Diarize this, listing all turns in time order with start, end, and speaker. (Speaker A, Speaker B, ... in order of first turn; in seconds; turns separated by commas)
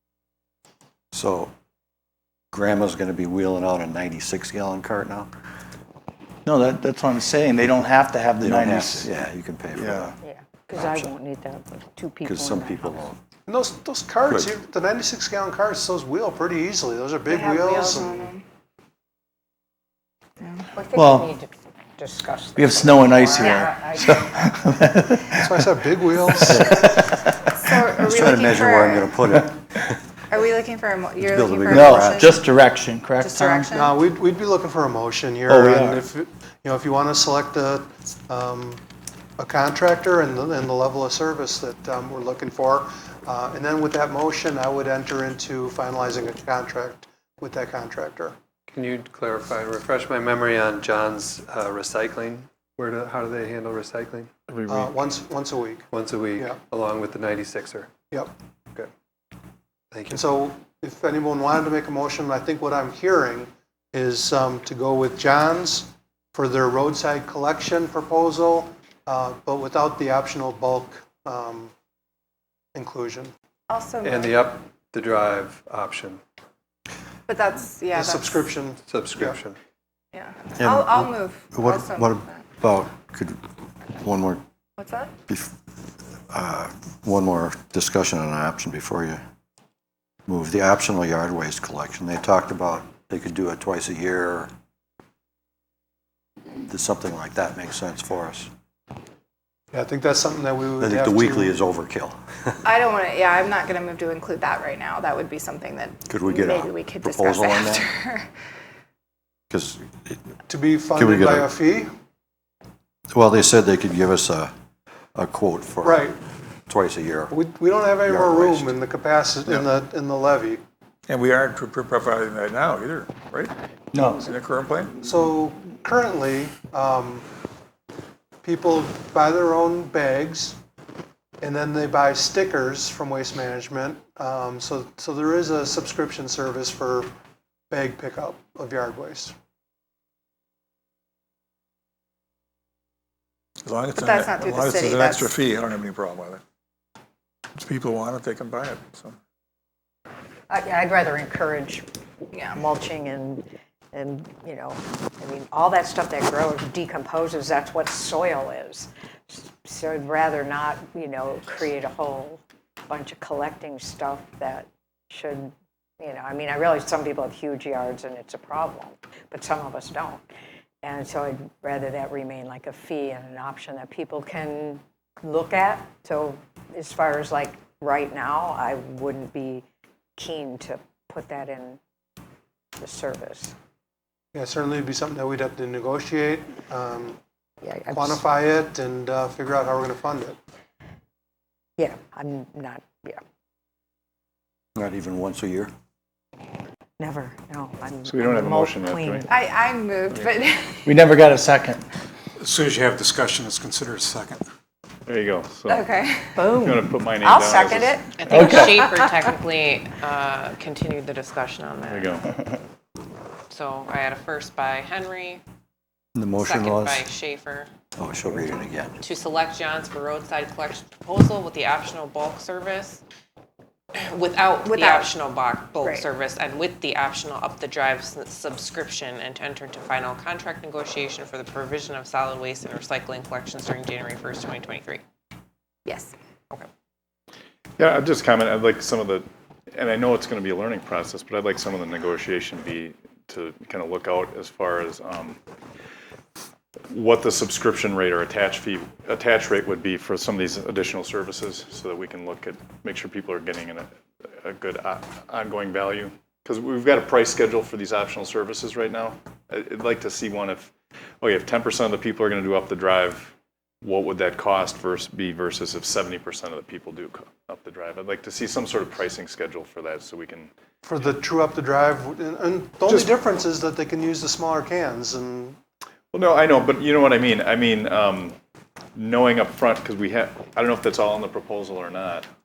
Speaker A: 1.1-1.5, Speaker A: 2.5-5.3, Speaker B: 6.5-9.1, Speaker A: 8.4-10.1, Speaker B: 9.8-10.1, Speaker C: 10.2-13.1, Speaker A: 12.2-13.2, Speaker D: 13.5-18.3, Speaker E: 17.3-18.4, Speaker E: 20.4-20.7, Speaker C: 20.7-24.4, Speaker B: 20.9-21.3, Speaker B: 22.6-25.5, Speaker E: 23.4-24.1, Speaker D: 25.4-26.6, Speaker A: 26.5-27.1, Speaker E: 27.6-29.1, Speaker A: 28.1-30.0, Speaker E: 30.3-32.5, Speaker A: 31.2-32.3, Speaker B: 31.7-33.7, Speaker E: 33.2-34.0, Speaker D: 33.8-38.8, Speaker B: 35.5-36.0, Speaker D: 39.4-48.3, Speaker F: 48.7-54.3, Speaker G: 54.5-55.2, Speaker D: 54.7-55.8, Speaker F: 55.9-57.9, Speaker F: 59.9-60.3, Speaker D: 60.1-71.7, Speaker D: 72.7-73.3, Speaker E: 73.7-74.3, Speaker F: 74.0-76.2, Speaker E: 77.3-78.5, Speaker D: 77.9-79.3, Speaker F: 78.8-79.6, Speaker E: 80.1-82.5, Speaker A: 80.6-83.4, Speaker A: 84.0-84.4, Speaker E: 84.8-85.1, Speaker A: 86.3-89.2, Speaker A: 90.3-94.5, Speaker A: 96.6-98.5, Speaker D: 99.7-101.5, Speaker A: 100.8-102.2, Speaker E: 102.6-108.3, Speaker A: 106.1-107.8, Speaker A: 109.5-110.2, Speaker D: 110.5-111.9, Speaker A: 110.9-111.5, Speaker A: 113.1-114.5, Speaker A: 115.1-116.1, Speaker D: 115.8-116.2, Speaker A: 116.7-117.3, Speaker D: 117.3-120.6, Speaker A: 118.0-118.8, Speaker H: 119.4-119.7, Speaker H: 121.1-123.5, Speaker B: 123.9-124.2, Speaker H: 124.1-125.1, Speaker D: 125.0-127.2, Speaker D: 128.4-130.6, Speaker D: 131.4-137.1, Speaker D: 137.7-139.3, Speaker H: 143.6-146.4, Speaker E: 143.9-145.3, Speaker H: 147.6-149.1, Speaker C: 150.5-151.8, Speaker E: 152.3-152.6, Speaker C: 152.5-170.2, Speaker C: 170.8-179.6, Speaker C: 180.2-181.8, Speaker C: 182.8-183.5, Speaker D: 184.3-187.2, Speaker C: 187.6-188.2, Speaker D: 187.9-190.4, Speaker C: 191.8-193.2, Speaker A: 194.8-195.7, Speaker C: 197.0-199.3, Speaker G: 198.0-199.3, Speaker E: 199.3-200.9, Speaker B: 200.8-201.8, Speaker I: 202.4-204.4, Speaker G: 205.1-205.8, Speaker E: 205.7-206.4, Speaker C: 206.3-208.0, Speaker G: 206.6-208.6, Speaker J: 208.2-212.3, Speaker B: 208.3-208.7, Speaker G: 211.8-212.2, Speaker J: 213.5-215.4, Speaker A: 216.1-217.0, Speaker J: 216.4-217.7, Speaker A: 218.0-218.9, Speaker J: 219.0-223.0, Speaker J: 223.9-235.0, Speaker E: 224.6-225.1, Speaker E: 225.8-226.1, Speaker E: 235.8-236.1, Speaker G: 237.8-245.4, Speaker G: 246.9-253.9, Speaker G: 254.4-270.5, Speaker D: 270.8-275.6, Speaker G: 272.8-273.3, Speaker G: 276.1-278.4, Speaker G: 278.9-282.2